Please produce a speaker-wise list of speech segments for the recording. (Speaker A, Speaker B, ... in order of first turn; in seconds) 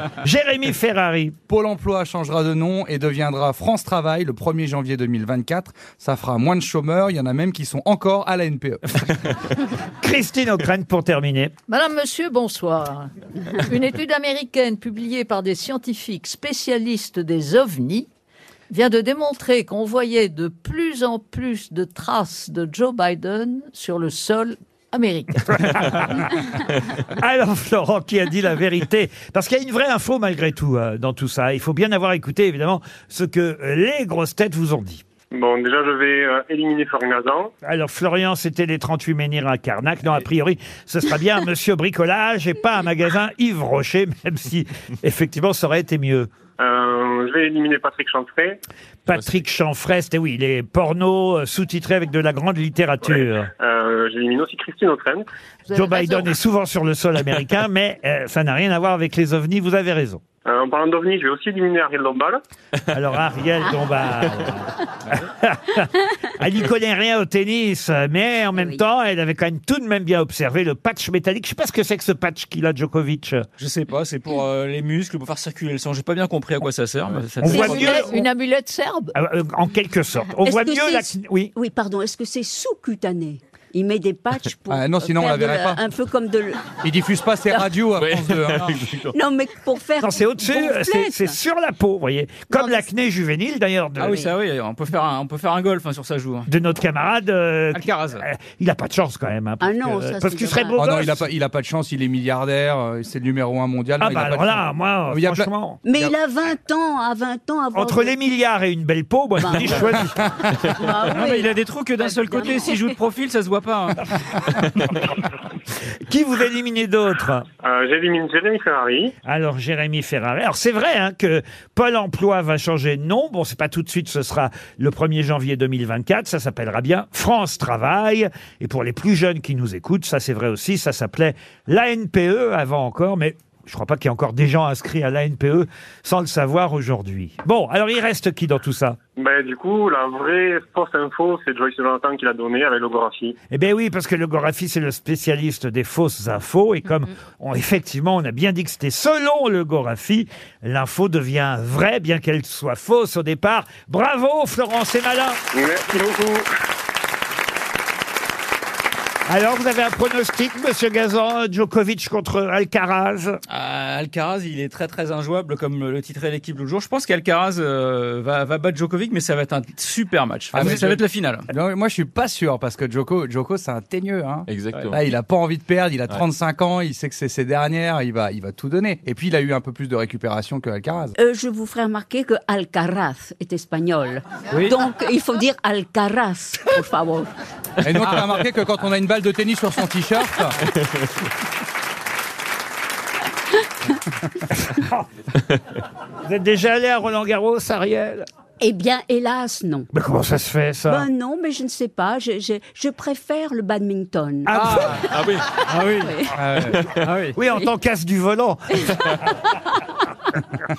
Speaker A: 0.2-1.4, 10.0-11.5, 25.5-26.3, 27.1-35.0, 37.6-46.3, 49.1-53.5, 55.7-60.2, 62.9-73.5, 77.4-78.2, 79.1-81.5, 90.0-94.2, 96.5-101.3, 104.0-105.8, 107.7-110.2, 116.0-117.5, 119.2-139.0, 143.5-155.4, 159.3-163.4, 194.6-195.1, 196.2-198.3, 199.9-201.1, 204.5-205.0, 207.3-209.0
Speaker B: 1.5-8.8, 84.7-85.8, 86.8-88.7, 100.8-106.1, 170.5-181.1, 187.8-190.6, 206.3-206.8
Speaker C: 11.7-18.1, 18.7-25.5, 55.7-56.2, 77.5-79.1
Speaker D: 35.3-37.5, 46.6-48.6, 53.0-55.2, 60.4-62.4, 117.6-119.1, 139.2-143.4, 155.5-156.5
Speaker E: 49.1-49.4, 87.9-89.1, 174.5-174.9, 205.0-205.5
Speaker F: 68.5-68.8, 77.6-78.0, 80.4-86.7, 89.1-91.3, 99.6-100.8, 105.8-108.1, 109.4-109.9, 110.7-111.5, 112.0-112.9, 181.2-187.3, 198.6-199.9, 200.9-205.1, 206.0-206.3
Speaker G: 73.6-78.1, 94.0-96.5, 97.7-98.2, 111.0-114.0, 163.5-171.5, 184.5-184.8, 204.5-204.9, 205.7-207.4